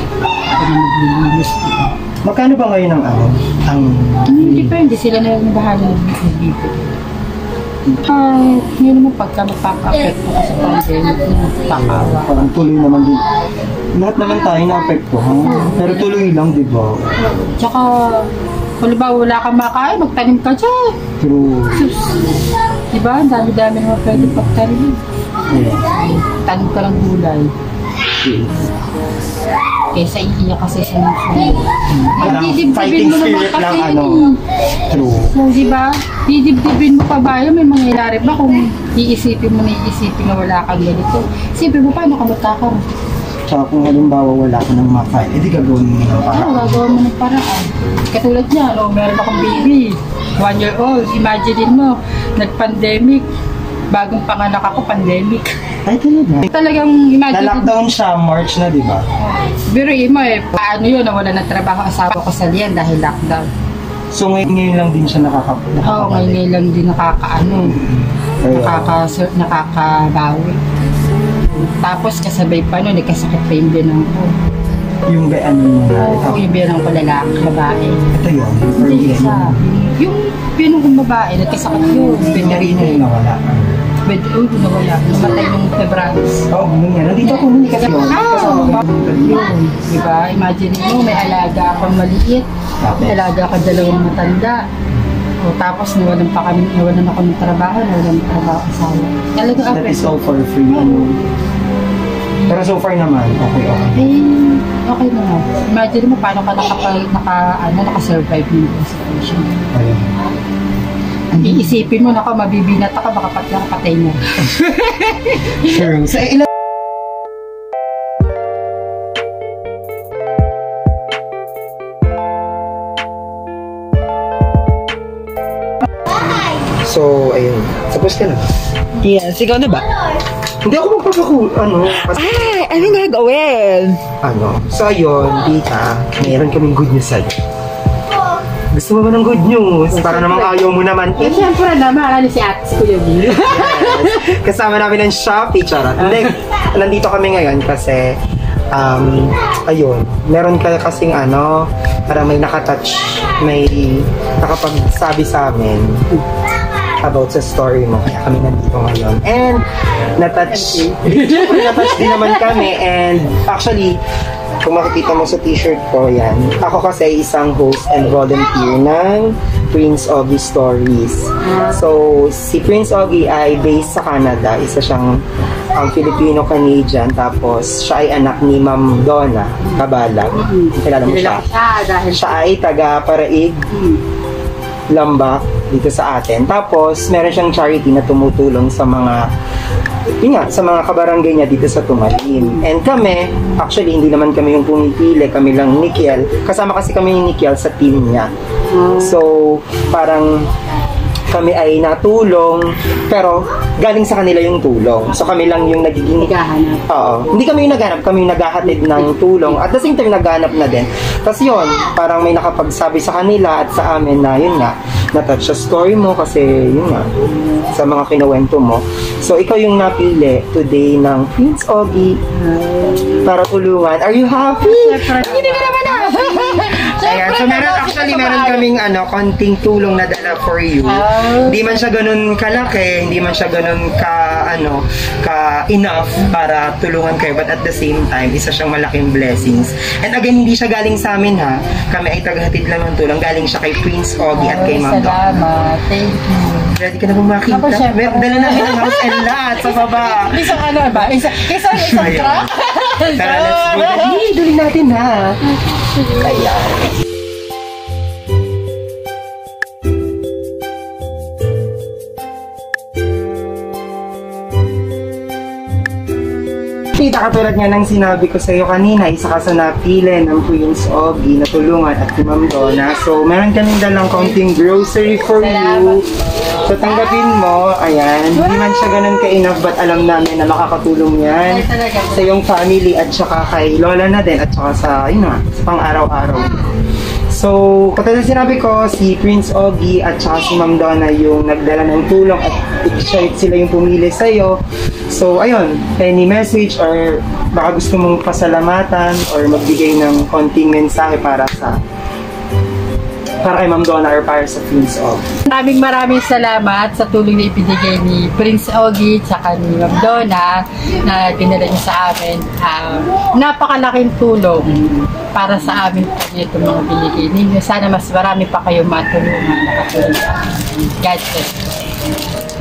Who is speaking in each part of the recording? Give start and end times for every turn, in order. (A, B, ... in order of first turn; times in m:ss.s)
0:00.4-0:02.0 A
0:02.2-0:04.8 B
0:04.3-0:07.0 A
0:08.0-0:12.5 A
0:11.7-0:13.3 B
0:13.9-0:17.0 B
0:15.5-0:16.1 A
0:17.2-0:18.3 A
0:18.8-0:20.9 A
0:21.2-0:21.9 B
0:21.7-0:22.4 A
0:22.9-0:25.0 A
0:24.1-0:24.5 B
0:25.5-0:25.9 B
0:25.8-0:27.5 A
0:28.2-0:28.7 B
0:29.9-0:34.4 A
0:31.9-0:34.2 B
0:34.8-0:35.3 B
0:35.2-0:42.8 A
0:43.5-0:46.8 B
0:46.2-0:53.2 A
0:53.9-0:55.6 A
0:55.8-0:56.5 B
0:56.5-0:57.7 A
0:57.3-0:59.1 B
0:59.2-1:03.5 A
1:04.1-1:06.4 B
1:05.8-1:07.8 A
1:07.6-1:09.0 B
1:08.5-1:10.6 A
1:11.5-1:14.3 A
1:15.0-1:16.4 B
1:15.9-1:18.0 A
1:18.1-1:19.7 B
1:18.7-1:23.0 A
1:22.3-1:23.9 B
1:24.0-1:26.5 A
1:26.5-1:29.4 B
1:27.4-1:34.6 A
1:32.8-1:33.2 B
1:35.4-1:40.2 A
1:39.6-1:41.2 B
1:40.7-1:41.2 A
1:42.4-1:42.7 A
1:42.5-1:44.1 B
1:43.9-1:49.6 A
1:49.7-1:50.2 B
1:51.3-1:51.7 B
1:51.4-1:54.6 A
1:54.6-1:56.5 B
2:06.6-2:08.5 B
2:09.0-2:10.0 C
2:10.6-2:13.0 B
2:11.9-2:14.0 C
2:14.2-2:17.4 B
2:18.7-2:21.5 B
2:19.9-2:24.3 A
2:23.4-2:36.0 B
2:26.0-2:26.2 A
2:37.0-2:44.0 B
2:40.5-2:41.8 A
2:44.6-3:01.4 B
2:51.4-2:51.8 A
3:00.3-3:02.4 A
3:02.1-3:03.6 B
3:03.7-3:04.0 A
3:04.9-3:09.2 B
3:10.2-3:18.3 B
3:12.3-3:12.6 A
3:18.7-3:19.2 A
3:19.0-3:20.5 B
3:21.3-3:26.3 B
3:26.2-3:26.9 A
3:26.9-3:42.2 B
3:28.8-3:29.1 A
3:42.3-3:43.3 A
3:43.2-4:05.4 B
3:44.6-3:48.7 A
3:45.6-3:46.7 C
3:50.8-3:51.9 A
4:04.3-4:06.7 A
4:06.7-4:10.6 B
4:07.4-4:14.2 A
4:11.7-4:12.5 B
4:13.1-4:15.4 B
4:15.7-4:16.4 A
4:16.1-4:16.9 B
4:26.9-4:36.1 B
4:35.4-4:36.1 A
4:36.6-4:46.7 B
4:38.4-4:38.7 A
4:41.5-4:42.5 A
4:47.3-5:01.8 B
5:03.4-5:05.4 B
5:05.4-5:21.7 A